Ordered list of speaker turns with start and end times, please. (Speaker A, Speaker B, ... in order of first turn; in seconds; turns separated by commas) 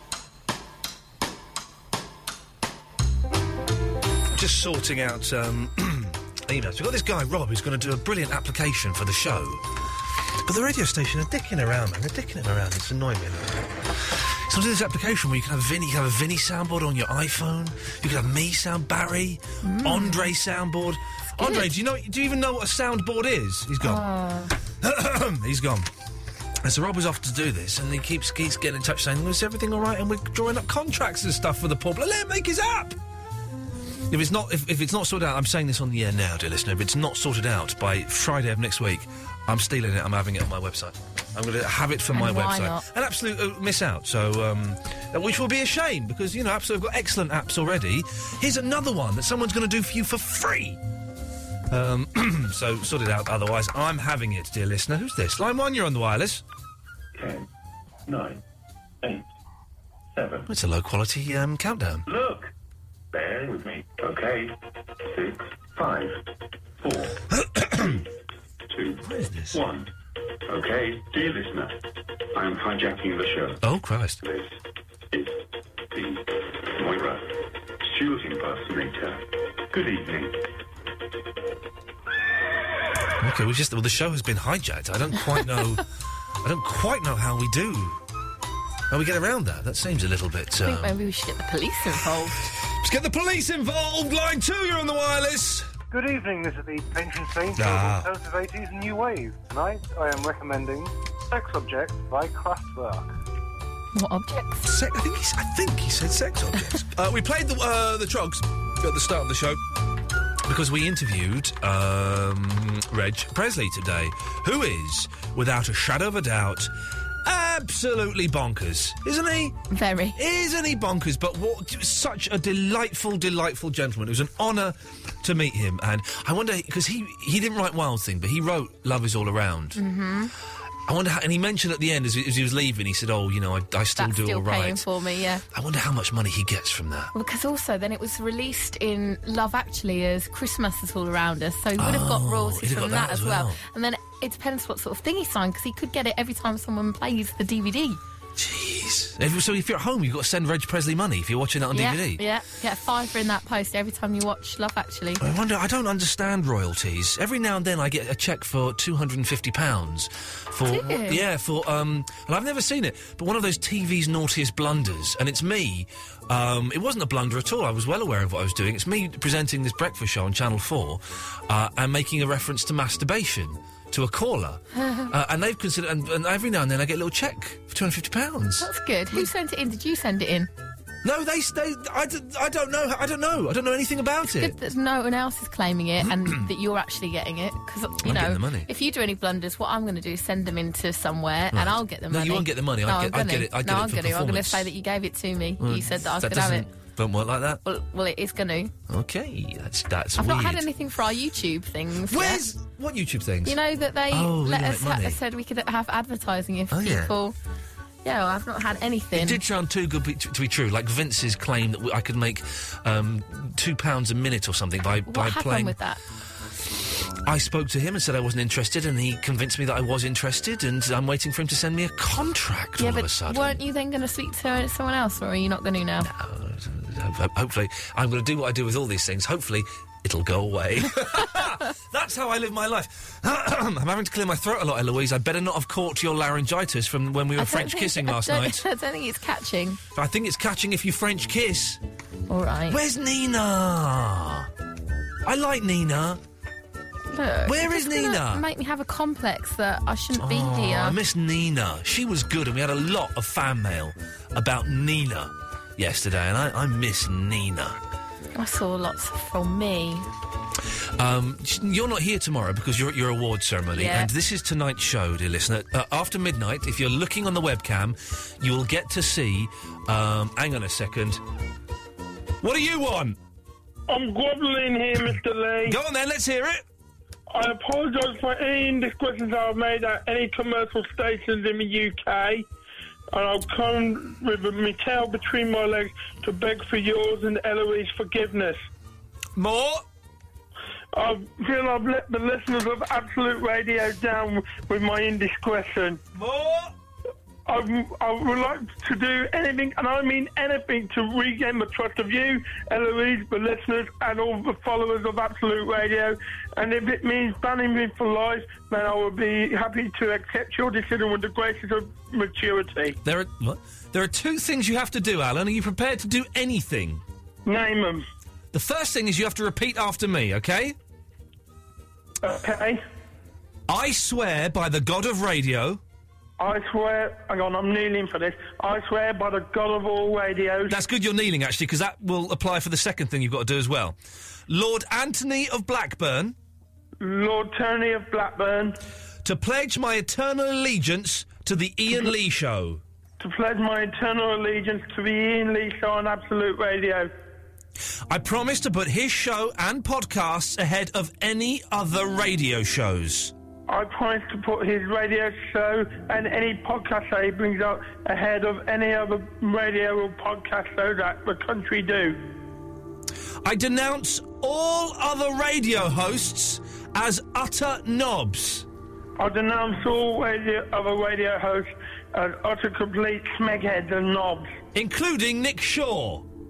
Speaker A: 4.3-9.7, Speaker A: 10.4-24.0, Speaker B: 19.6-20.3, Speaker B: 21.4-21.7, Speaker B: 23.8-24.5, Speaker A: 24.8-25.9, Speaker A: 26.6-33.0, Speaker A: 34.1-50.8, Speaker B: 42.1-42.8, Speaker A: 51.7-56.4, Speaker C: 57.1-57.4, Speaker C: 58.1-58.4, Speaker C: 60.1-60.5, Speaker A: 60.5-62.1, Speaker C: 62.1-62.5, Speaker C: 63.1-66.2, Speaker C: 66.8-67.2, Speaker A: 67.4-67.8, Speaker C: 67.7-68.0, Speaker C: 68.7-69.9, Speaker A: 69.0-69.6, Speaker C: 70.5-71.8, Speaker C: 72.3-73.6, Speaker A: 73.6-74.2, Speaker C: 74.2-74.6, Speaker C: 75.1-80.4, Speaker A: 83.2-85.8, Speaker A: 86.4-88.0, Speaker A: 88.9-90.9, Speaker B: 90.6-92.4, Speaker A: 92.5-95.7, Speaker D: 95.9-103.1, Speaker A: 97.5-98.1, Speaker B: 103.9-104.7, Speaker A: 104.6-109.6, Speaker A: 110.5-116.7, Speaker A: 117.2-119.5, Speaker B: 119.7-120.2, Speaker A: 120.2-129.8, Speaker B: 129.8-130.3, Speaker A: 130.9-134.8, Speaker B: 134.0-135.4, Speaker A: 135.5-137.1, Speaker B: 137.1-148.0, Speaker A: 141.8-143.6, Speaker A: 148.3-152.2, Speaker B: 151.7-155.2, Speaker A: 155.2-178.7, Speaker B: 160.6-161.2, Speaker B: 178.6-180.5, Speaker A: 181.0-184.6, Speaker B: 184.3-196.7, Speaker A: 186.0-186.5, Speaker A: 188.0-188.7, Speaker A: 191.5-194.7, Speaker A: 195.6-197.6, Speaker B: 197.6-198.7, Speaker A: 198.9-200.7, Speaker B: 200.2-202.4, Speaker A: 202.1-203.6, Speaker B: 203.4-207.3, Speaker A: 204.1-205.2, Speaker A: 206.7-207.1, Speaker B: 208.0-209.4, Speaker A: 209.1-215.8, Speaker B: 215.1-216.0, Speaker A: 216.7-223.6, Speaker B: 222.8-226.1, Speaker A: 226.0-238.6, Speaker B: 237.4-239.8, Speaker A: 239.9-241.8, Speaker B: 242.3-242.8, Speaker A: 242.7-244.5, Speaker A: 245.2-246.2, Speaker B: 247.1-251.0, Speaker A: 247.4-248.4, Speaker A: 250.2-257.8, Speaker B: 258.4-260.1, Speaker A: 260.9-271.2, Speaker B: 263.7-264.1, Speaker A: 272.4-273.2, Speaker E: 273.9-275.8, Speaker A: 275.6-276.6, Speaker E: 277.3-282.5, Speaker E: 283.1-288.6, Speaker A: 289.4-289.8, Speaker E: 290.9-296.0, Speaker A: 296.1-296.7, Speaker E: 297.4-313.0, Speaker A: 313.0-317.0, Speaker E: 317.4-318.1, Speaker A: 318.5-320.8, Speaker E: 322.2-322.8, Speaker A: 323.7-325.8, Speaker E: 326.4-330.8, Speaker A: 330.7-334.0, Speaker A: 334.5-336.4, Speaker E: 337.0-338.8, Speaker A: 339.2-342.8, Speaker E: 343.2-347.1, Speaker A: 348.1-353.3, Speaker E: 353.7-362.2, Speaker A: 363.4-368.6, Speaker E: 369.2-374.5, Speaker A: 374.7-376.2